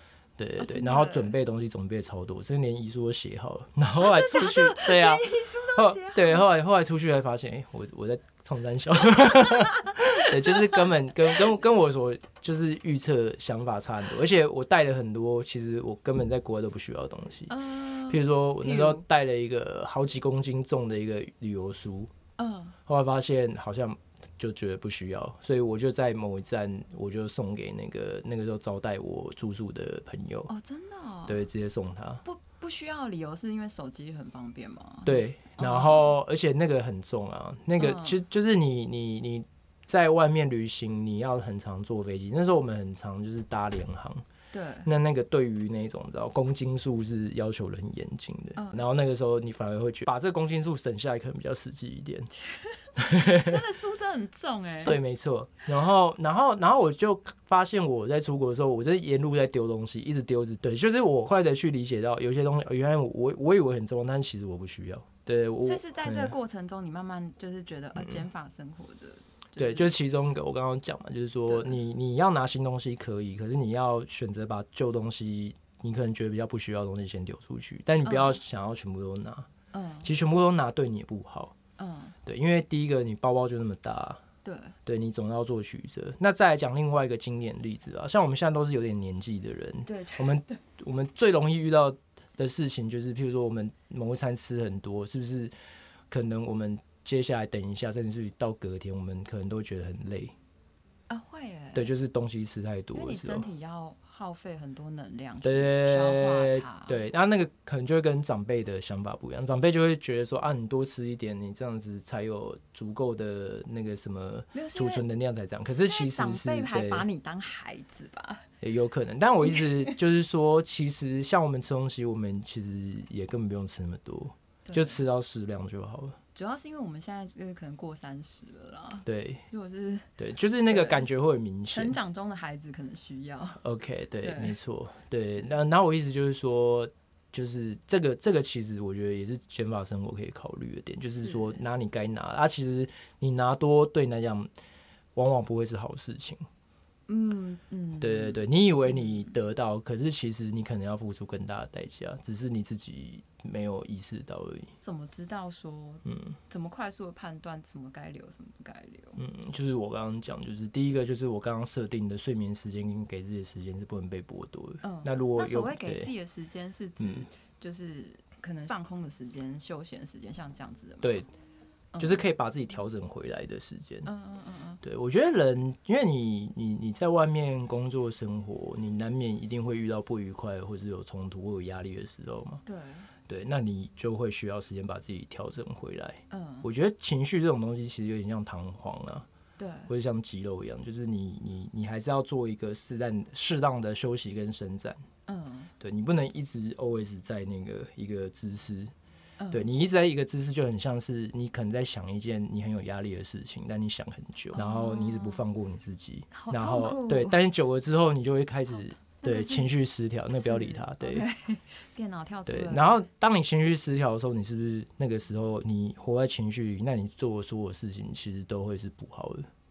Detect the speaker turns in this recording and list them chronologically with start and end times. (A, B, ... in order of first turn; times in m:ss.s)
0:00.4-0:17.6 A
0:00.6-0:01.4 B
0:04.0-0:06.5 B
0:09.4-0:10.9 B
0:17.5-0:19.0 B
0:18.1-0:22.1 A
0:22.4-0:22.8 B
0:22.8-0:30.5 A
0:30.5-0:31.4 B
0:31.3-0:32.2 A
0:32.2-0:36.2 B
0:35.0-0:44.2 A
0:37.8-0:38.2 B
0:44.5-0:44.9 B
0:44.8-0:52.3 A
0:48.6-0:48.8 B
0:52.4-0:55.0 B
0:53.0-0:53.6 A
0:54.8-1:06.3 A
1:05.6-1:09.9 B
1:08.0-1:08.2 A
1:09.6-1:19.5 A
1:11.5-1:11.8 B
1:18.0-1:18.4 B
1:19.7-1:20.1 B
1:20.0-1:21.5 A
1:21.8-1:22.2 B
1:22.2-1:24.2 A
1:24.4-1:24.7 B
1:24.8-1:35.5 A
1:29.8-1:30.6 B
1:36.1-1:40.3 A
1:41.1-1:41.9 B
1:41.7-1:43.5 A
1:42.9-1:47.0 B
1:45.4-1:57.0 A
1:54.5-1:55.0 B
1:55.8-1:58.5 B
1:58.6-2:06.2 A
1:59.5-1:59.9 B
2:04.7-2:05.0 B
2:06.3-2:10.1 B
2:09.0-2:09.4 A
2:10.2-2:12.0 A
2:10.7-2:11.0 B
2:11.7-2:13.6 B
2:13.6-2:24.5 A
2:14.2-2:14.6 B
2:21.2-2:21.6 B
2:25.1-2:26.4 A
2:27.1-2:29.2 B
2:28.0-2:34.7 A
2:34.8-2:39.2 B
2:36.0-2:36.4 A
2:39.2-2:46.1 A
2:44.8-2:51.3 B
2:47.0-2:47.3 A
2:51.0-2:51.3 A
2:51.9-2:52.2 B
2:52.0-2:54.1 A
2:54.0-2:54.8 B
2:54.8-3:02.6 A
3:02.6-3:03.1 B
3:03.3-3:09.2 A
3:06.3-3:06.7 B
3:09.6-3:09.9 B
3:09.9-3:15.0 A
3:15.3-3:15.7 B
3:15.8-3:18.9 A
3:19.4-3:19.7 B
3:19.5-3:31.3 A
3:24.5-3:25.4 B
3:26.3-3:27.4 B
3:29.2-3:29.7 B
3:30.3-3:33.0 B
3:32.5-3:39.5 A